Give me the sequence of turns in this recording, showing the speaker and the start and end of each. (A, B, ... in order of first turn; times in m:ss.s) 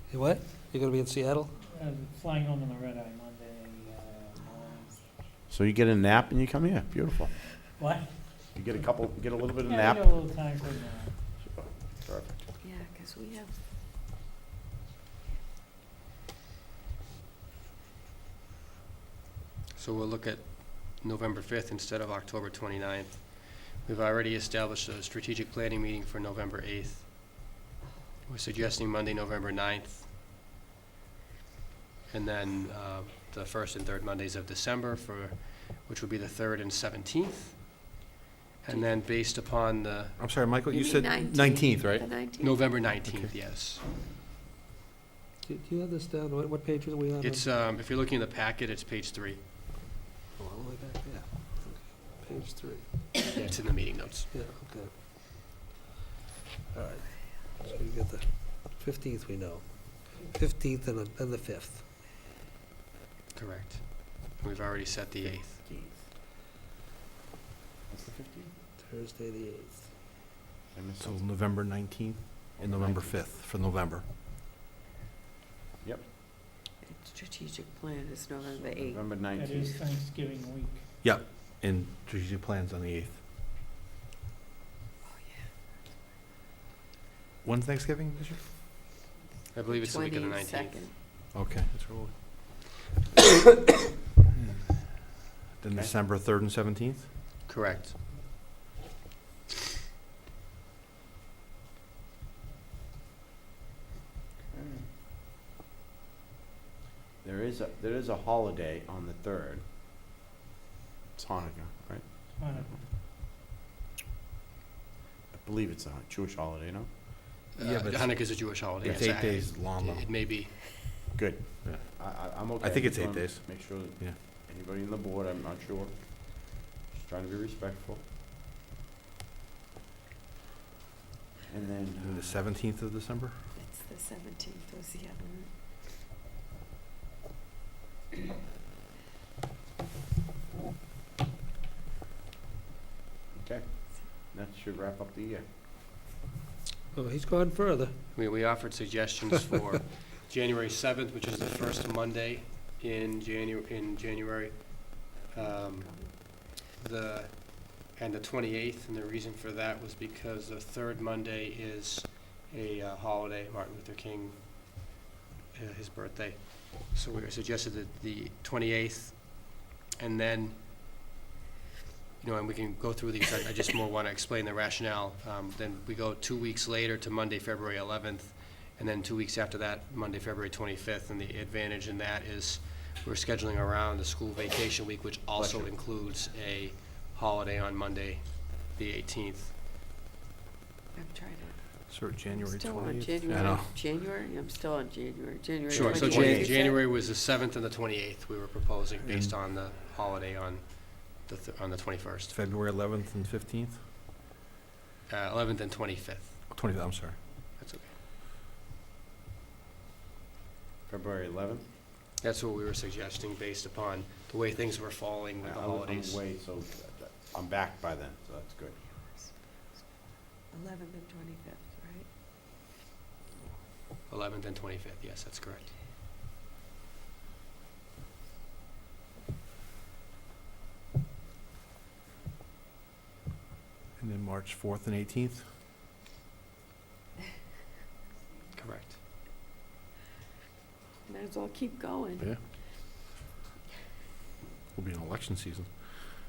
0:00.1-0:01.5 A
0:01.6-0:05.0 B
0:05.5-0:07.4 C
0:07.8-0:08.2 B
0:08.6-0:10.2 C
0:09.7-0:11.1 B
0:11.4-0:12.4 C
0:12.6-0:13.6 D
0:19.8-0:27.5 E
0:28.3-0:30.1 E
0:32.1-0:37.8 E
0:38.6-0:40.2 E
0:40.2-0:42.1 F
0:40.7-0:42.8 D
0:42.4-0:43.8 E
0:43.0-0:43.4 F
0:45.4-0:47.5 A
0:47.2-0:49.4 E
0:50.4-0:53.2 A
0:53.2-0:54.3 E
0:54.3-0:55.5 A
0:56.7-1:01.8 A
1:03.3-1:05.6 E
1:05.2-1:06.1 C
1:07.9-1:08.5 C
1:08.8-1:09.9 A
1:10.7-1:11.2 C
1:11.0-1:14.1 F
1:12.6-1:13.3 C
1:15.8-1:16.1 C
1:16.8-1:19.0 D
1:18.5-1:19.8 C
1:19.4-1:20.8 B
1:21.0-1:23.2 F
1:25.0-1:25.4 D
1:27.4-1:28.4 F
1:29.5-1:30.9 E
1:29.7-1:31.0 D
1:31.3-1:31.9 F
1:35.6-1:37.1 F
1:37.5-1:38.0 E
1:44.5-1:44.9 C
1:47.2-1:49.6 C
1:51.2-1:52.1 C
1:52.4-1:52.9 B
1:55.3-1:56.9 C
1:57.6-2:00.6 E
1:57.6-2:00.3 F
2:01.2-2:08.1 C
2:01.6-2:02.0 F
2:02.6-2:04.2 F
2:11.5-2:12.4 C
2:12.0-2:13.4 F
2:13.6-2:15.5 D
2:23.3-2:25.4 C
2:26.9-2:28.0 A
2:28.1-2:44.9 E
2:35.4-2:36.1 D
2:45.5-2:50.6 E
2:52.2-3:09.6 E
3:05.4-3:05.7 C
3:10.9-3:11.8 D
3:11.9-3:13.8 F
3:12.3-3:16.8 D
3:15.7-3:16.6 F
3:15.7-3:22.4 E
3:19.0-3:19.4 F
3:22.3-3:23.8 F
3:25.1-3:26.4 E
3:26.5-3:27.2 F
3:27.6-3:27.9 E
3:30.9-3:31.7 C
3:32.2-3:36.2 E
3:35.4-3:38.8 C
3:40.5-3:42.1 D
3:44.1-3:45.8 E
3:54.0-3:55.4 F
3:58.6-3:59.0 E
4:01.1-4:02.3 D
4:04.7-4:06.1 F